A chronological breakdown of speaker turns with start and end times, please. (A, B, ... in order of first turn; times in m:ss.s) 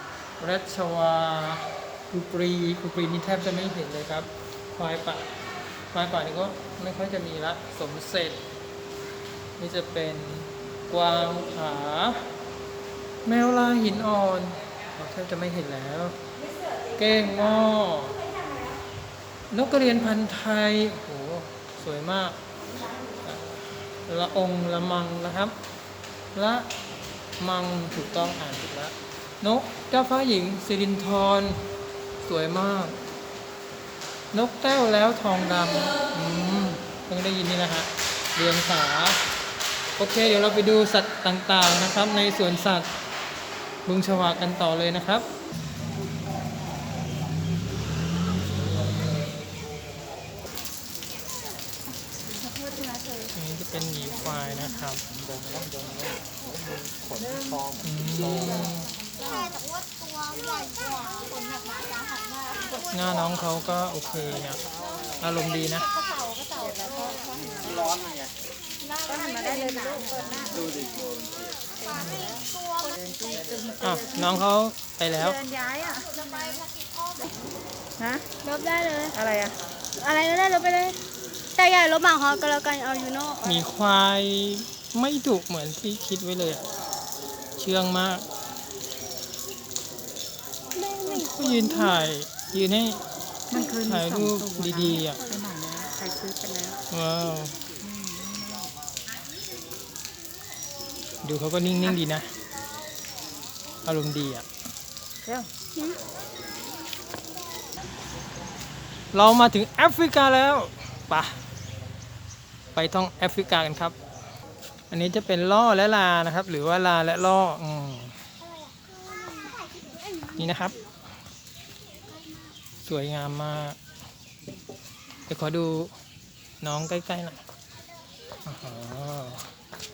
0:00.4-0:05.3 A
0:05.9-0:08.4 A
0:09.6-0:12.3 A
0:13.2-0:16.2 A
0:16.9-0:18.2 A
0:19.5-0:22.4 A
0:23.2-0:25.6 A
0:26.3-0:26.7 A
0:27.4-0:31.7 A
0:32.2-0:33.0 A
0:34.3-0:39.3 A
0:40.0-0:42.9 A
0:43.8-0:45.3 A
0:52.7-0:53.3 B
0:53.3-0:55.0 A
0:57.2-0:57.6 B
0:57.8-0:59.0 A
0:58.7-0:59.4 B
0:59.3-0:59.6 C
1:02.9-1:04.6 A
1:05.2-1:05.9 A
1:05.9-1:07.9 B
1:09.0-1:10.8 B
1:11.9-1:12.2 B
1:12.0-1:12.3 A
1:13.0-1:14.3 B
1:13.8-1:15.4 A
1:15.2-1:16.6 B
1:18.0-1:18.3 B
1:18.4-1:19.2 C
1:19.1-1:19.6 B
1:20.0-1:21.0 C
1:21.6-1:23.4 C
1:23.4-1:26.6 A
1:27.6-1:28.3 A
1:30.8-1:32.0 C
1:31.2-1:33.0 A
1:33.5-1:36.8 B
1:33.8-1:35.2 A
1:36.9-1:37.6 A
1:37.8-1:38.7 B
1:41.2-1:42.3 A
1:43.8-1:44.4 A
1:45.2-1:45.5 B
1:49.1-1:51.4 A
1:52.8-1:54.0 A
1:54.9-1:58.2 A
1:58.6-2:00.4 C
2:00.4-2:00.8 A
2:02.8-2:03.8 A
2:05.3-2:05.9 A
2:06.6-2:07.4 A
2:08.4-2:09.5 A